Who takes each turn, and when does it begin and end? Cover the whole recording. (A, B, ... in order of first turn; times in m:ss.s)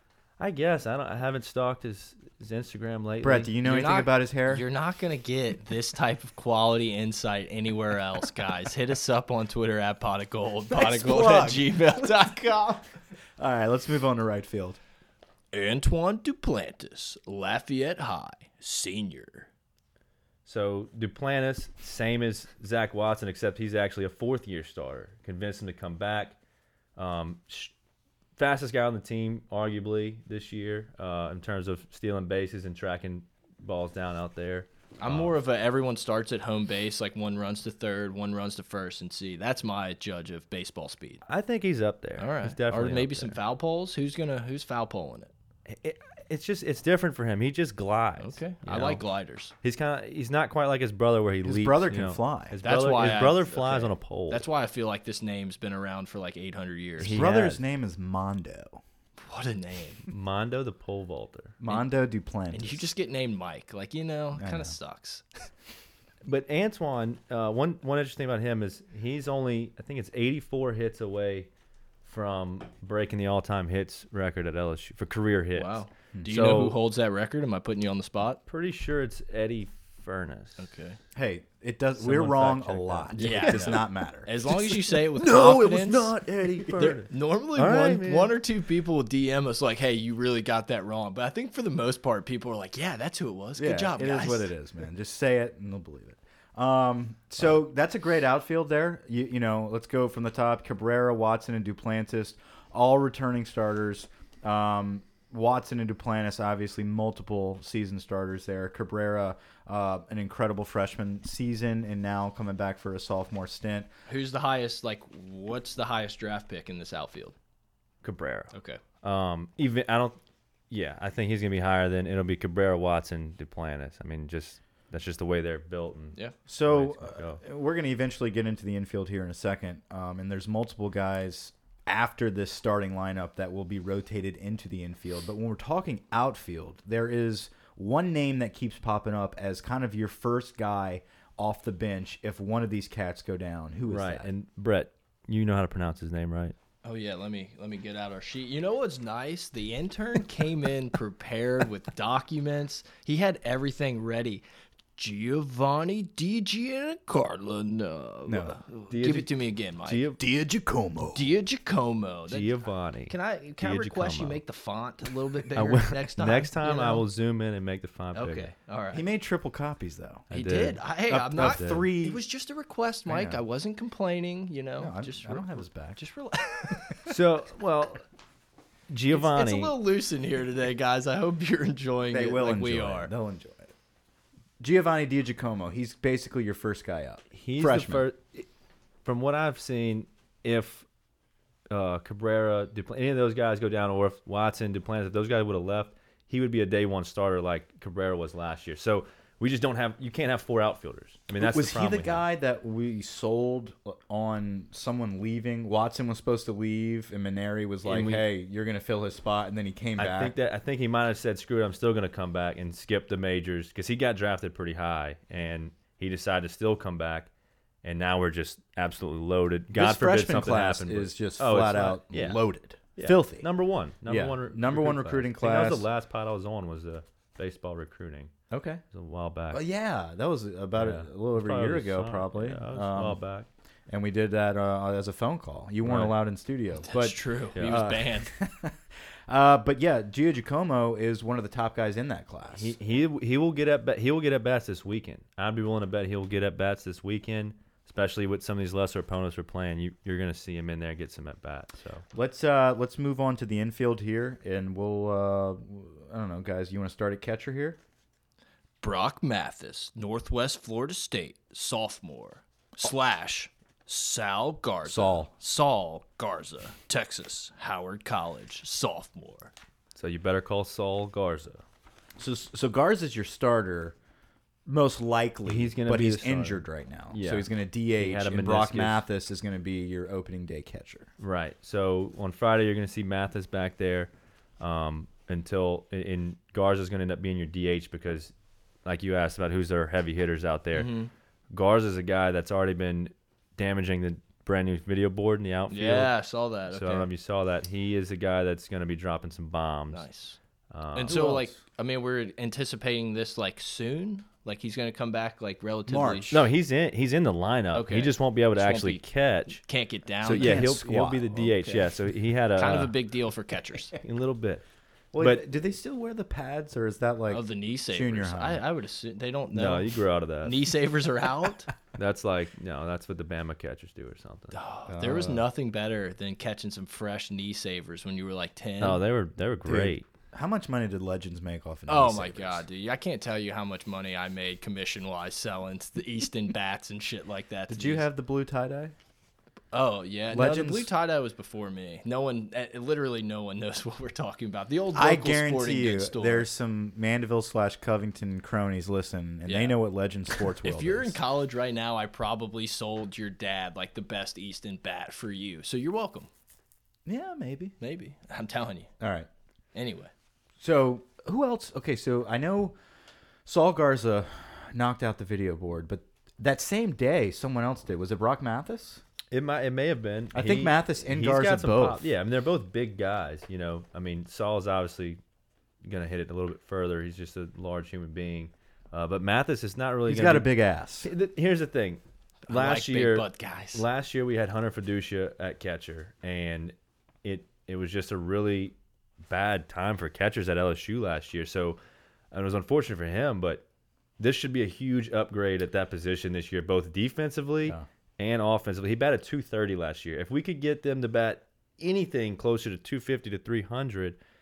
0:00.4-0:03.5 A
0:03.2-0:04.6 B
0:03.6-0:12.8 C
0:10.7-0:12.8 B
0:13.4-0:14.8 B
0:15.5-0:19.5 C
0:20.4-0:26.4 A
0:27.0-0:27.7 A
0:28.4-0:35.4 A
0:35.0-0:41.2 C
0:41.3-0:43.4 A
0:42.2-0:45.3 C
0:45.7-0:49.0 A
0:48.2-0:49.5 C
0:49.6-0:54.4 A
0:51.4-0:52.6 B
0:52.6-0:57.2 C
0:57.0-0:57.6 A
0:57.0-0:58.8 B
0:59.2-1:00.0 C
1:00.1-1:01.6 A
1:01.6-1:02.8 B
1:02.5-1:05.4 C
1:04.4-1:04.8 B
1:06.2-1:11.5 A
1:12.0-1:16.8 A
1:15.5-1:18.4 C
1:16.1-1:16.5 B
1:18.5-1:20.6 A
1:20.6-1:21.0 C
1:21.1-1:24.3 B
1:22.0-1:23.8 A
1:23.2-1:26.1 C
1:24.8-1:28.3 A
1:26.6-1:26.9 B
1:26.7-1:34.5 C
1:33.6-1:53.9 B
1:54.1-1:57.3 C
1:58.0-2:00.2 A
1:58.5-1:58.8 C
2:00.7-2:07.4 A
2:06.5-2:24.3 B
2:23.9-2:26.5 A
2:26.8-2:34.4 C
2:35.0-2:40.1 C
2:38.2-2:38.6 B
2:38.9-2:40.2 A
2:40.2-2:41.3 B
2:41.1-2:42.5 C
2:42.3-2:44.4 A
2:43.1-2:47.0 C
2:45.5-2:48.5 A
2:48.1-2:49.0 C
2:48.9-2:50.3 B
2:50.3-2:51.9 A
2:50.3-2:57.2 C
2:51.1-2:52.2 B
2:53.1-2:53.4 B
2:54.8-2:56.0 B
2:57.0-2:58.0 A
2:58.9-2:59.7 A
2:59.1-3:03.1 C
3:02.1-3:03.7 B
3:04.6-3:08.1 B
3:07.3-3:08.4 A
3:09.0-3:10.8 A
3:11.7-3:22.2 A
3:21.4-3:30.3 B
3:27.8-3:28.2 A
3:30.0-3:37.3 A
3:37.8-3:42.4 A
3:39.7-3:43.5 B
3:42.9-3:48.3 A
3:44.0-3:45.9 B
3:48.5-3:48.8 B
3:48.9-3:49.6 A
3:49.5-3:53.2 B
3:50.8-3:53.5 A
3:53.9-4:02.8 B
3:55.8-3:56.1 A
3:56.8-3:58.3 C
3:57.6-3:57.8 A
4:02.5-4:12.0 A
4:12.1-4:17.8 B
4:18.8-4:29.5 C
4:24.8-4:25.3 B
4:29.9-4:31.6 A
4:32.2-4:34.0 B
4:34.6-4:41.1 B
4:35.4-4:39.0 A
4:41.2-4:48.3 A
4:48.8-4:50.9 A
4:50.7-4:51.1 C
4:51.5-4:56.1 A
4:55.7-4:57.1 C
4:56.7-5:00.0 A
4:59.9-5:00.4 C
5:00.7-5:01.3 A
5:00.9-5:06.4 C
5:01.0-5:01.5 B
5:05.9-5:06.4 B
5:06.3-5:09.6 A
5:07.7-5:10.7 C
5:10.2-5:12.9 A
5:10.2-5:11.4 B
5:11.4-5:11.9 C
5:12.6-5:13.9 C
5:13.9-5:14.6 A
5:15.1-5:18.6 B
5:15.2-5:15.4 A
5:17.3-5:19.9 C
5:19.5-5:20.7 A
5:20.4-5:21.7 C
5:21.9-5:24.6 A
5:24.5-5:29.0 C
5:24.9-5:25.4 B
5:28.8-5:30.0 A
5:29.6-5:32.6 B
5:31.9-5:38.0 C
5:37.7-5:38.9 B
5:39.7-5:46.5 C
5:40.3-5:40.9 B
5:44.9-5:51.2 B
5:49.4-5:49.8 C
5:50.3-5:56.3 C
5:57.0-5:57.7 B
5:57.8-5:58.9 C
5:59.0-5:59.3 B
5:59.7-6:00.1 C
6:00.6-6:02.8 B
6:03.4-6:09.0 B
6:09.3-6:15.2 A
6:10.3-6:12.1 B
6:15.8-6:20.5 A
6:20.0-6:21.1 B
6:21.0-6:28.7 A
6:22.5-6:23.8 C
6:29.3-6:31.8 A
6:32.3-6:33.6 A
6:34.2-6:44.2 A